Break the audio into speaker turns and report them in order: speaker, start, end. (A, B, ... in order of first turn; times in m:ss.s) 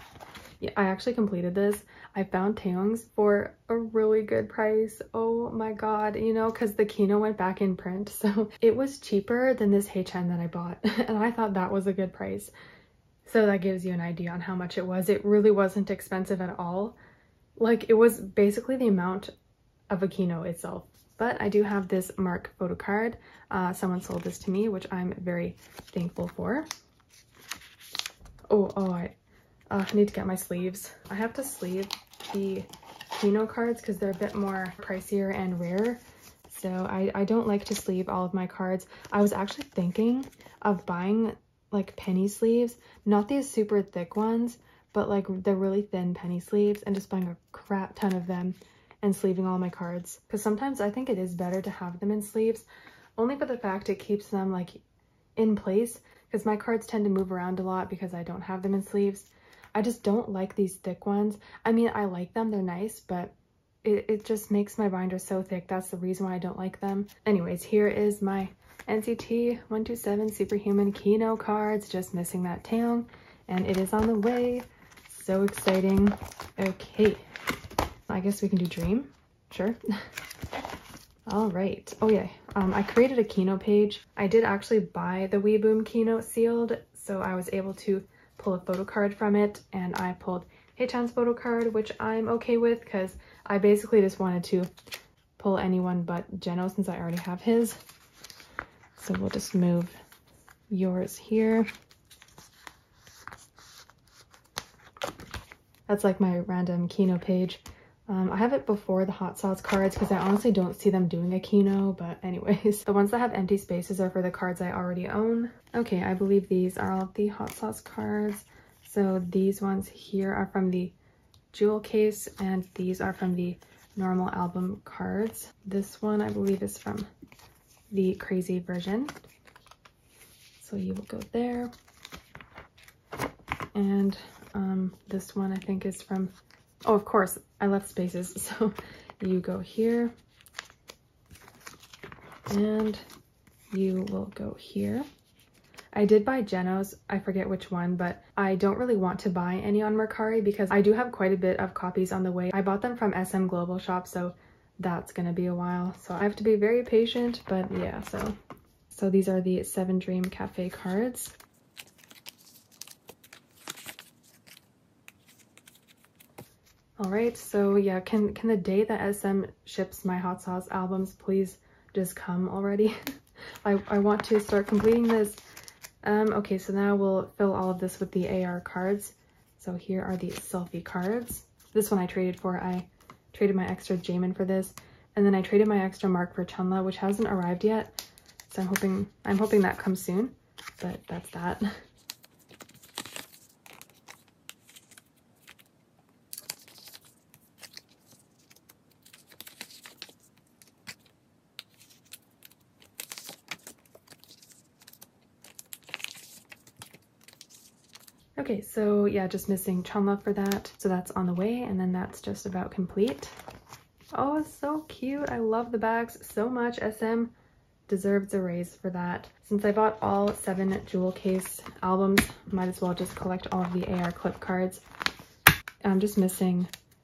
0:00.6-0:12.5 A
0:13.2-0:17.0 A
0:17.6-0:19.3 A
0:19.9-0:26.7 A
0:28.5-0:29.1 A
0:29.7-0:52.6 A
0:53.2-0:54.8 A
0:55.4-1:17.2 A
1:18.1-1:19.8 A
1:21.3-1:34.7 A
1:35.4-1:37.8 A
1:39.0-1:40.0 A
1:40.7-1:41.7 A
1:45.9-2:00.9 A
2:01.5-2:07.1 A
2:07.9-2:09.2 A
2:10.6-2:11.7 A
2:13.7-2:16.3 A
2:16.8-2:20.1 A
2:22.5-2:23.0 A
2:23.7-2:25.1 A
2:25.9-2:38.4 A
2:38.9-2:41.4 A
2:47.0-2:53.0 A
2:53.6-2:55.4 A
2:56.0-3:07.9 A
3:08.5-3:11.7 A
3:28.4-3:33.4 A
3:34.1-3:37.3 A
3:37.9-3:44.8 A
3:45.8-3:46.7 A